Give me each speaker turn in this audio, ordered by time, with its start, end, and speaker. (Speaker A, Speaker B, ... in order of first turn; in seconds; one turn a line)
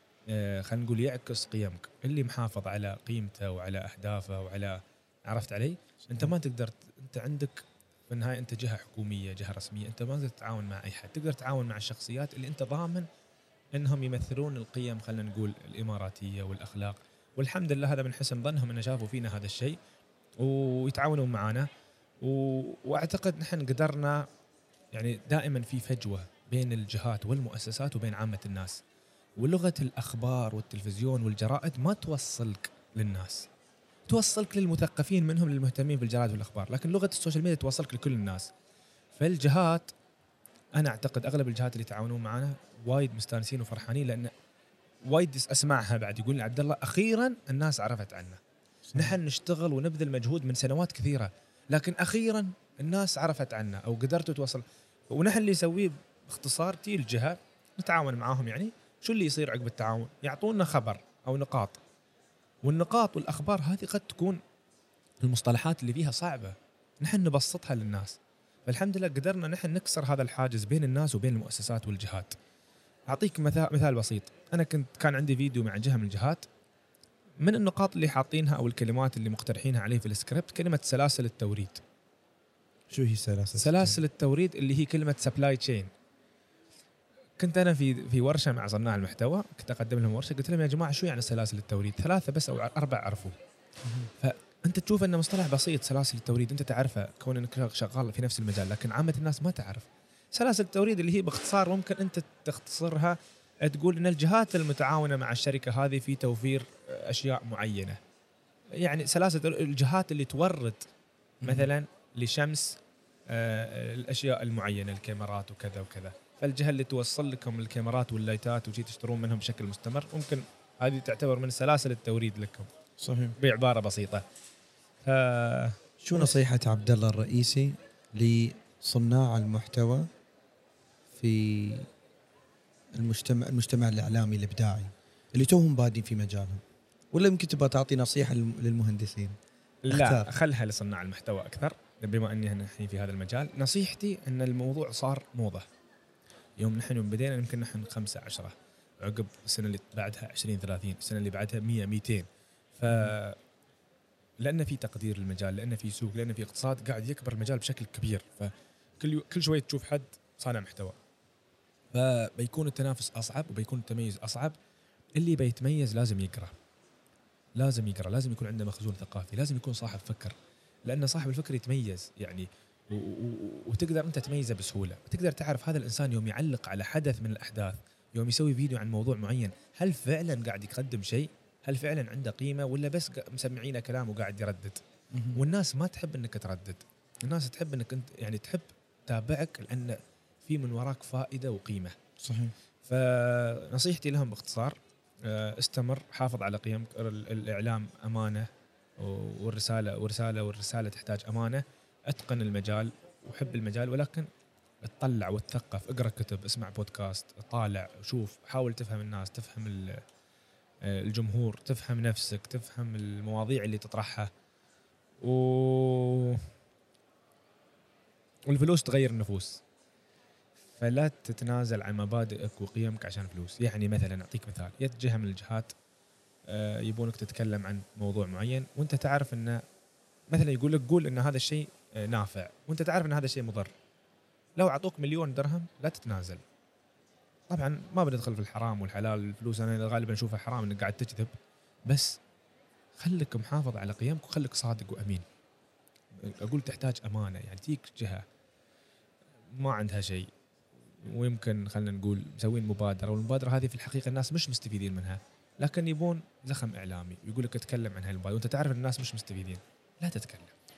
Speaker A: 0.3-13.1
Speaker B: 6.1-6.3
Speaker A: 13.7-19.8
Speaker A: 20.4-21.7
Speaker A: 22.2-24.3
Speaker A: 24.9-28.8
Speaker A: 29.4-33.5
Speaker A: 34.1-38.5
Speaker A: 39.1-39.9
Speaker A: 40.8-44.3
Speaker A: 45.1-48.4
Speaker B: 48.9-49.2
Speaker A: 49.0-61.8
Speaker A: 62.6-64.4
Speaker A: 65.2-72.3
Speaker A: 73.1-76.5
Speaker A: 77.4-81.8
Speaker B: 82.9-84.0
Speaker A: 83.6-85.9
Speaker A: 87.4-93.3
Speaker A: 94.2-108.0
Speaker A: 108.8-110.9
Speaker B: 111.4-111.7
Speaker A: 111.4-122.7
Speaker B: 123.0-123.3
Speaker A: 123.4-124.2
Speaker A: 125.0-126.3
Speaker B: 126.0-130.1
Speaker B: 131.1-131.9
Speaker B: 133.0-136.6
Speaker B: 137.1-139.3
Speaker A: 139.8-145.7
Speaker B: 139.9-140.3
Speaker A: 146.6-152.3
Speaker A: 152.8-153.4
Speaker A: 154.4-161.0
Speaker A: 161.9-164.6
Speaker A: 165.2-166.5
Speaker A: 167.6-184.8
Speaker B: 185.1-185.4
Speaker A: 185.3-191.9
Speaker B: 192.2-192.5
Speaker A: 192.8-198.5
Speaker A: 199.0-204.3
Speaker A: 204.8-210.0
Speaker A: 210.8-214.3
Speaker A: 215.2-216.4
Speaker A: 218.5-219.6
Speaker A: 220.8-225.7
Speaker A: 226.5-229.6
Speaker A: 230.3-233.7
Speaker A: 234.6-236.4
Speaker A: 237.5-241.3
Speaker A: 241.9-242.2
Speaker A: 243.0-245.2
Speaker A: 246.2-248.2
Speaker A: 249.5-250.3
Speaker A: 251.0-260.5